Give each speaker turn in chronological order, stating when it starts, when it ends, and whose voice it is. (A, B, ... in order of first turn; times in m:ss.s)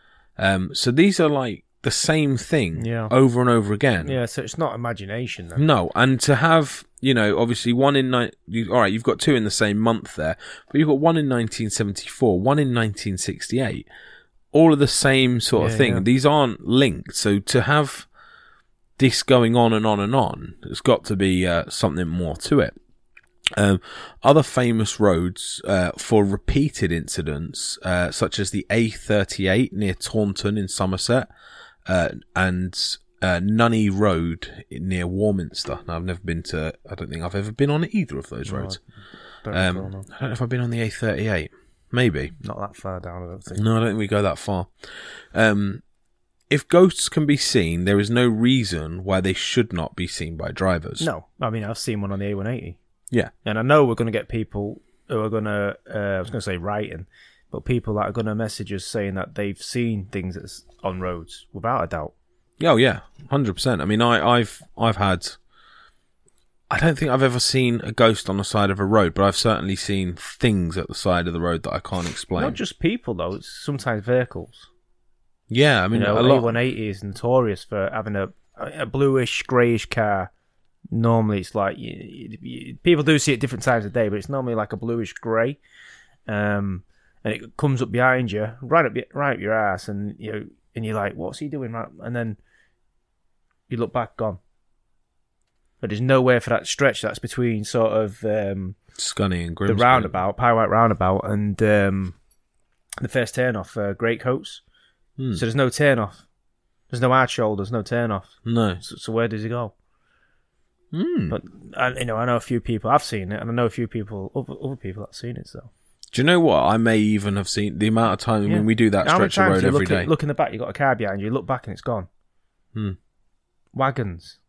0:00.4-0:04.2 A
0:02.8-0:03.1 B
0:04.0-0:05.6 B
0:05.6-0:13.9 A
0:14.5-0:18.1 A
0:15.6-0:16.0 B
0:19.0-0:22.7 A
0:23.5-0:31.3 A
0:31.9-0:38.8 A
0:38.4-0:38.8 B
0:39.4-0:40.1 B
0:39.5-0:42.3 A
0:42.4-0:43.6 B
0:43.6-0:45.8 A
0:46.5-0:51.1 A
0:51.0-0:52.8 B
0:53.4-1:02.1 B
1:02.6-1:05.4 A
1:06.7-1:12.6 A
1:12.4-1:14.7 B
1:15.5-1:16.5 A
1:15.9-1:20.3 B
1:20.9-1:25.6 B
1:26.3-1:32.4 B
1:33.7-1:34.4 B
1:35.8-1:38.8 B
1:39.0-1:40.1 A
1:39.6-1:42.1 B
1:43.0-1:44.6 B
1:45.3-1:46.2 B
1:46.9-1:49.7 B
1:48.4-1:48.8 A
1:50.9-1:51.4 A
1:51.3-1:55.7 B
1:56.1-2:00.1 A
1:58.4-2:02.1 B
2:03.7-2:04.4 B